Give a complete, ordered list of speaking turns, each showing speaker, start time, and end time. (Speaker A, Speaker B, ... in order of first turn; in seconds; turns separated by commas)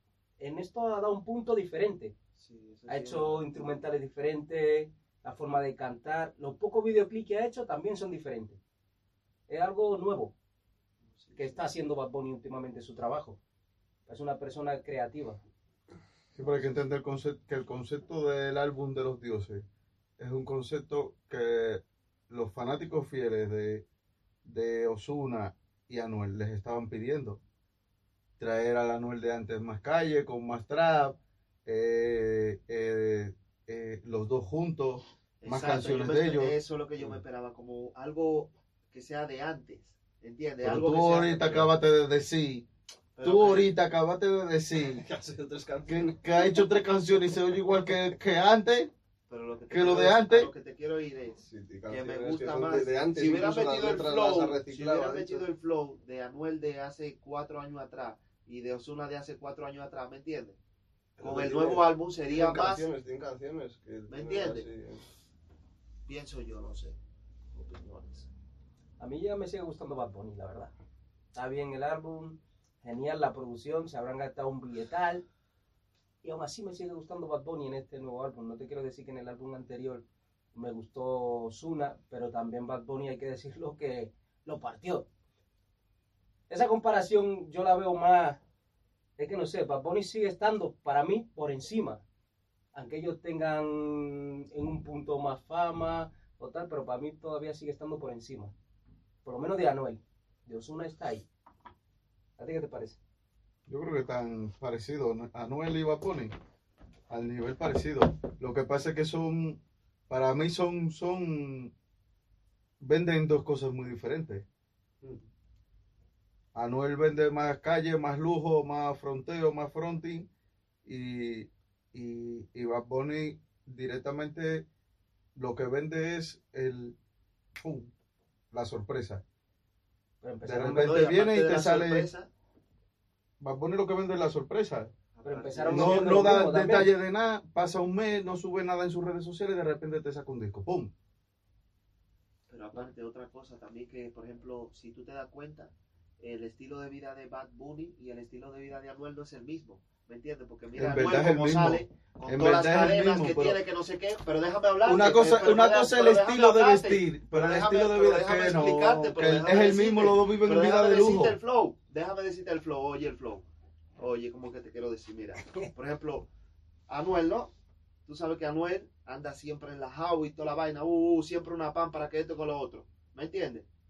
Speaker A: 0.4-2.1, Speaker B: 2.4-3.4, Speaker A: 2.9-8.6, Speaker A: 9.5-10.3, Speaker B: 11.1-11.6, Speaker A: 11.3-13.4, Speaker A: 14.1-15.4, Speaker C: 16.4-19.6, Speaker C: 20.2-23.9, Speaker C: 24.4-27.4, Speaker C: 28.4-37.2, Speaker B: 35.4-41.7, Speaker C: 40.6-42.7, Speaker B: 43.2-43.7, Speaker C: 43.2-45.0, Speaker D: 44.9-46.6, Speaker C: 45.9-48.9, Speaker B: 49.3-60.6, Speaker C: 49.7-50.5, Speaker D: 51.4-55.4, Speaker D: 61.2-65.0, Speaker B: 61.2-62.9, Speaker B: 64.1-64.7, Speaker B: 66.1-67.0, Speaker B: 67.5-68.3, Speaker A: 69.0-70.7, Speaker A: 71.3-75.2, Speaker A: 76.2-85.1, Speaker A: 86.5-88.4, Speaker A: 89.2-92.0, Speaker A: 92.7-98.5, Speaker A: 99.2-101.3, Speaker A: 102.4-103.0, Speaker C: 103.7-106.3, Speaker C: 107.1-111.7, Speaker C: 112.8-114.5, Speaker C: 116.5-120.3, Speaker C: 120.8-124.7, Speaker C: 125.4-127.0, Speaker C: 127.6-127.9, Speaker C: 128.5-129.2, Speaker A: 130.2-131.0, Speaker C: 130.4-132.1, Speaker B: 130.7-132.3, Speaker C: 133.4-134.9, Speaker B: 135.2-136.3, Speaker A: 135.2-136.9, Speaker C: 135.7-140.9, Speaker B: 142.5-163.4, Speaker C: 150.8-153.6, Speaker C: 154.8-161.4, Speaker B: 164.0-166.3, Speaker A: 165.4-165.7, Speaker B: 166.9-167.5, Speaker B: 168.1-173.7